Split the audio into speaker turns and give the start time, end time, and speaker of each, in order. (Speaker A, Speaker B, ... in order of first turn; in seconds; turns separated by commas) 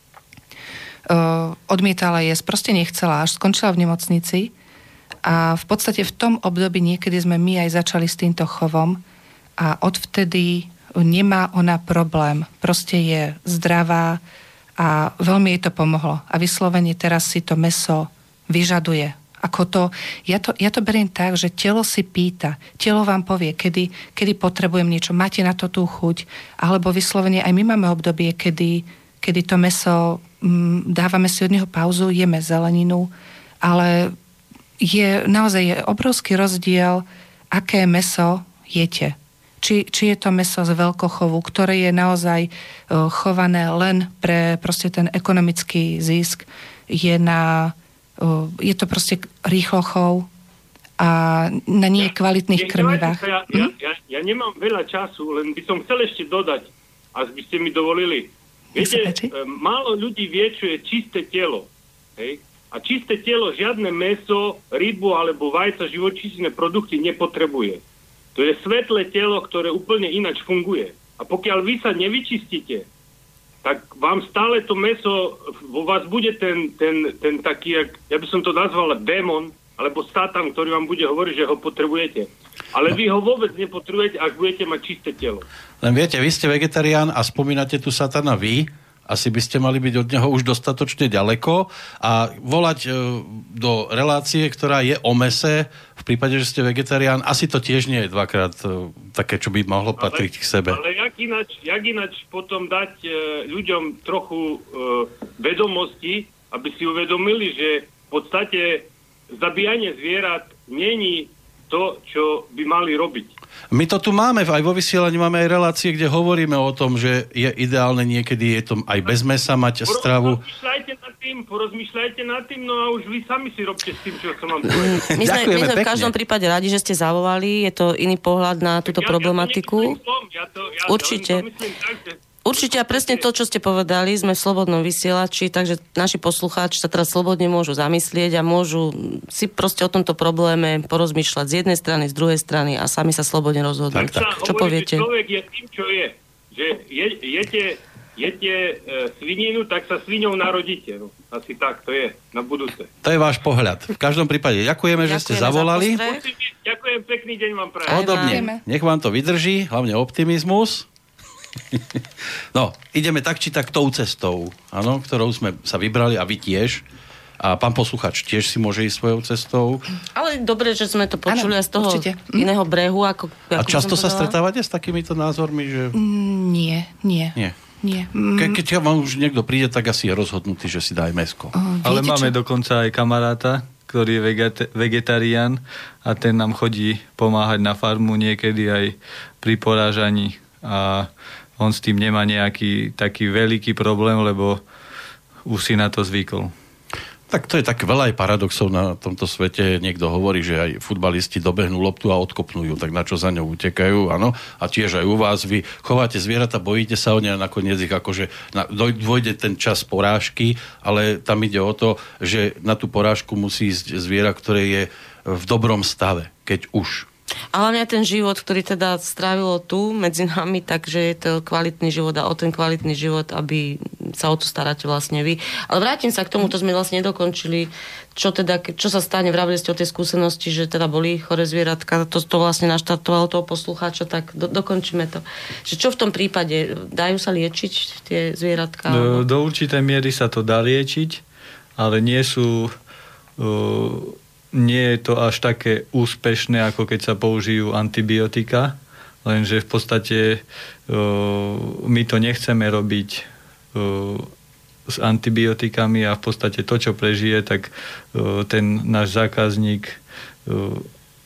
Speaker A: 1.1-4.5, Speaker A: 5.2-9.0, Speaker A: 9.6-14.2, Speaker A: 14.8-33.1, Speaker A: 33.6-34.1, Speaker A: 34.8-50.3, Speaker A: 51.0-53.7, Speaker B: 52.0-67.8, Speaker A: 58.8-59.3, Speaker B: 68.3-72.8, Speaker B: 73.6-85.5, Speaker C: 85.8-100.8, Speaker B: 100.0-113.3, Speaker C: 113.7-120.4, Speaker B: 119.8-125.0, Speaker D: 124.7-130.0, Speaker C: 125.2-126.1, Speaker B: 128.9-133.2, Speaker D: 130.8-131.5, Speaker D: 132.4-145.1, Speaker B: 144.0-152.9, Speaker C: 153.0-156.0, Speaker D: 155.0-156.2, Speaker B: 156.0-158.1, Speaker D: 157.9-158.4, Speaker C: 157.9-160.9, Speaker A: 158.1-158.6, Speaker C: 161.7-162.0, Speaker C: 162.5-166.8, Speaker C: 167.4-169.8, Speaker D: 170.1-174.3, Speaker A: 171.3-172.5, Speaker C: 173.6-176.0, Speaker A: 175.9-178.6, Speaker C: 178.3-181.5, Speaker A: 181.5-182.3, Speaker E: 181.8-194.6, Speaker E: 195.4-196.5, Speaker C: 197.3-217.1, Speaker D: 217.5-239.2, Speaker E: 238.9-241.2, Speaker E: 241.8-242.7, Speaker E: 243.4-254.3, Speaker E: 254.9-260.9